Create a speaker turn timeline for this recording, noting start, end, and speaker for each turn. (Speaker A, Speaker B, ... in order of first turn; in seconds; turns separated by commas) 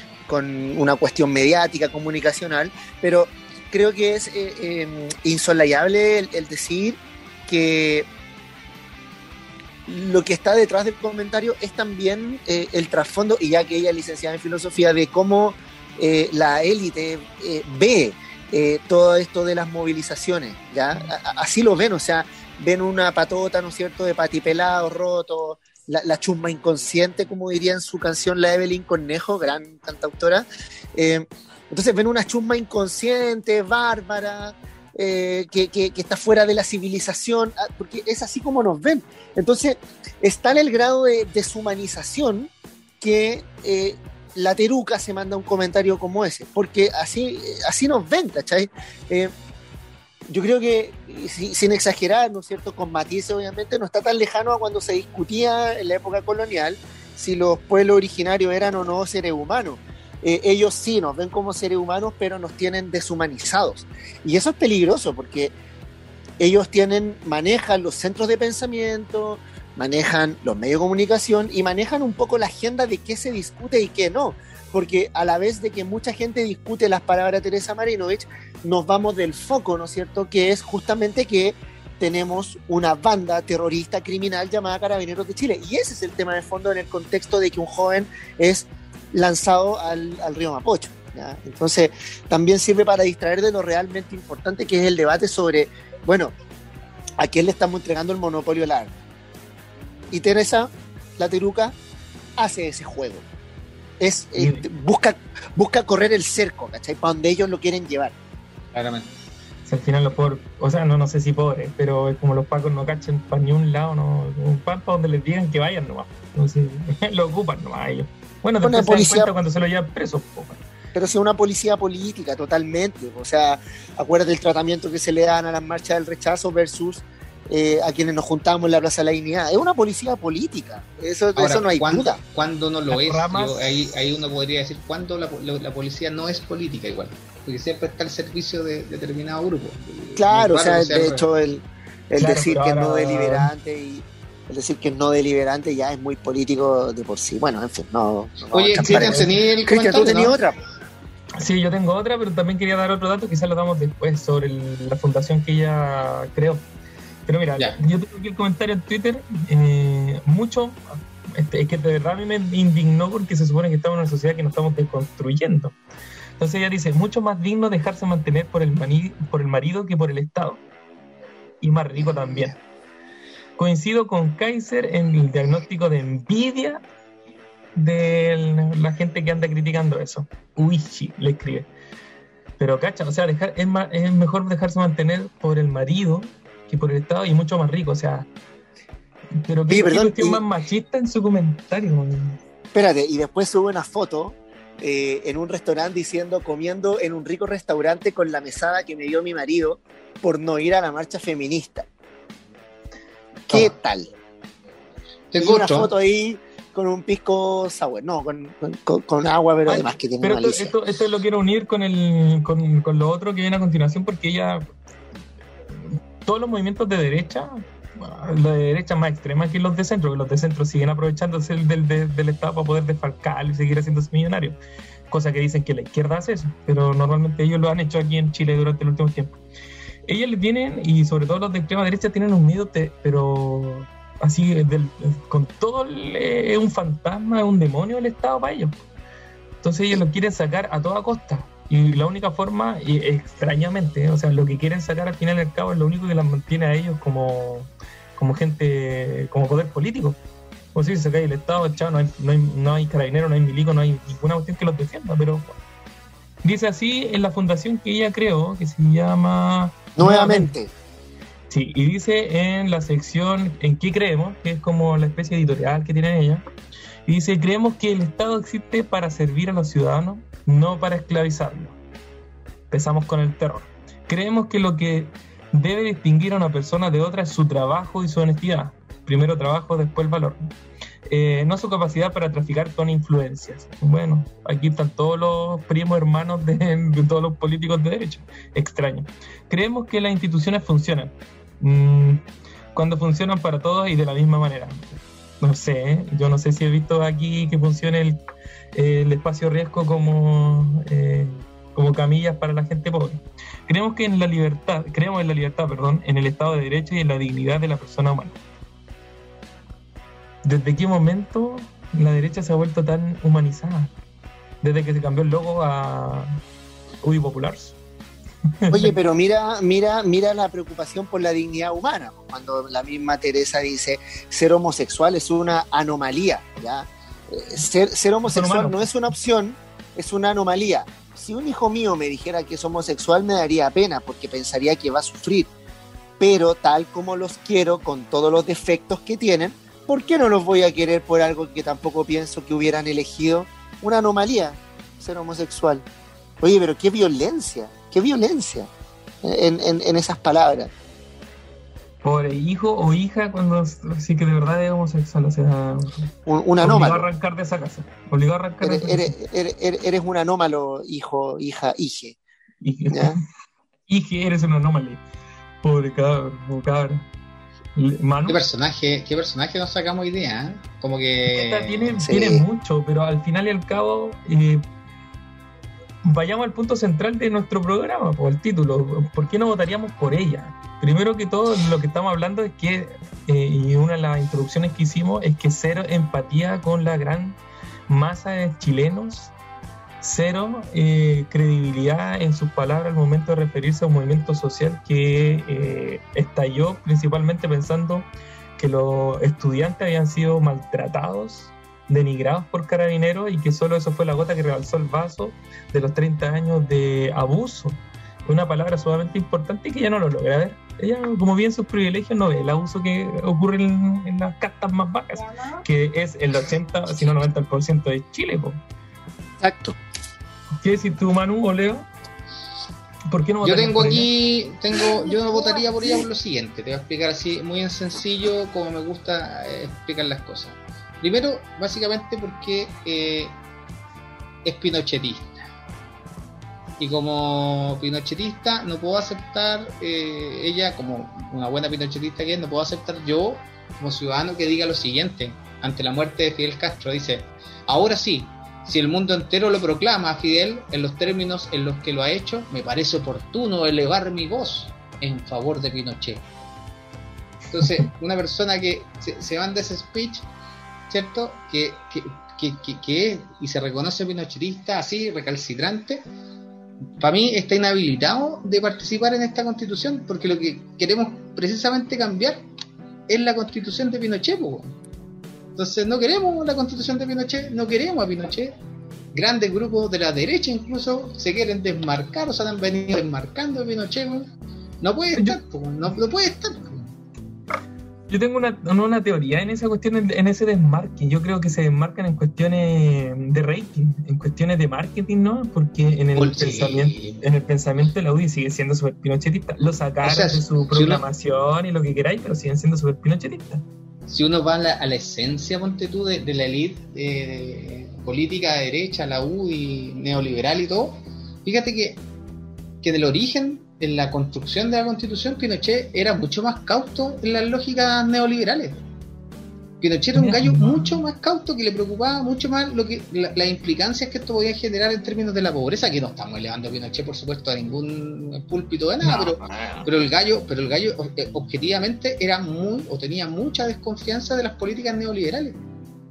Speaker A: 0.3-8.1, Speaker A: 9.9-42.5, Speaker A: 43.0-49.3, Speaker A: 50.3-65.5, Speaker A: 66.4-96.3, Speaker A: 97.2-98.9, Speaker A: 100.1-101.8, Speaker A: 102.4-103.2, Speaker A: 104.0-108.1, Speaker B: 104.4-104.7, Speaker C: 108.7-109.1, Speaker B: 109.7-120.6, Speaker A: 118.6-119.3, Speaker A: 121.0-132.2, Speaker C: 131.3-141.3, Speaker B: 132.9-133.7, Speaker A: 140.2-150.6, Speaker B: 142.2-143.5, Speaker C: 148.5-150.4, Speaker B: 148.8-149.3, Speaker B: 151.4-156.7, Speaker B: 157.3-165.8, Speaker B: 166.4-170.6, Speaker B: 171.6-172.6, Speaker C: 172.1-172.6, Speaker B: 173.6-176.8, Speaker B: 177.8-181.7, Speaker B: 182.6-188.3, Speaker B: 189.4-192.4, Speaker A: 189.7-190.4, Speaker A: 192.7-201.9, Speaker A: 203.5-204.1, Speaker C: 203.5-203.7, Speaker C: 205.3-205.9, Speaker A: 205.4-210.7, Speaker B: 209.7-214.7, Speaker B: 215.8-224.6, Speaker B: 225.1-229.3, Speaker B: 230.1-238.8, Speaker B: 239.6-250.2, Speaker B: 250.8-255.5, Speaker B: 256.4-260.5, Speaker A: 260.0-260.7, Speaker B: 261.5-266.4, Speaker B: 267.1-271.8, Speaker B: 272.7-280.5, Speaker B: 281.1-292.2, Speaker B: 292.7-294.8, Speaker B: 295.4-298.2, Speaker B: 298.8-308.4, Speaker B: 310.4-313.9, Speaker B: 314.6-316.3, Speaker B: 317.0-317.8, Speaker B: 318.6-319.0, Speaker A: 318.7-335.5, Speaker B: 328.3-328.9, Speaker A: 336.2-345.9, Speaker A: 346.4-348.7, Speaker A: 349.2-350.7, Speaker B: 352.0-356.1, Speaker A: 356.3-357.0, Speaker B: 356.6-359.1, Speaker A: 358.6-362.2, Speaker B: 362.6-363.3, Speaker A: 362.9-363.2, Speaker B: 363.9-365.0, Speaker B: 365.6-367.1, Speaker B: 367.8-368.4, Speaker C: 368.3-372.0, Speaker B: 371.3-374.6, Speaker A: 372.1-372.4, Speaker B: 376.0-389.3, Speaker B: 390.0-418.6, Speaker A: 419.4-419.8, Speaker B: 420.6-421.9, Speaker B: 423.1-424.1, Speaker C: 423.4-433.4, Speaker C: 434.4-435.4, Speaker C: 436.8-456.2, Speaker C: 457.5-460.3, Speaker C: 460.9-466.0, Speaker C: 467.0-472.4, Speaker C: 473.1-474.8, Speaker C: 475.6-478.6, Speaker C: 479.1-484.3, Speaker C: 484.8-486.9, Speaker B: 488.1-503.6, Speaker C: 496.1-497.2, Speaker C: 500.0-501.1, Speaker C: 504.1-512.0, Speaker C: 512.8-518.8, Speaker C: 519.8-535.6, Speaker B: 520.1-521.0, Speaker B: 529.0-529.9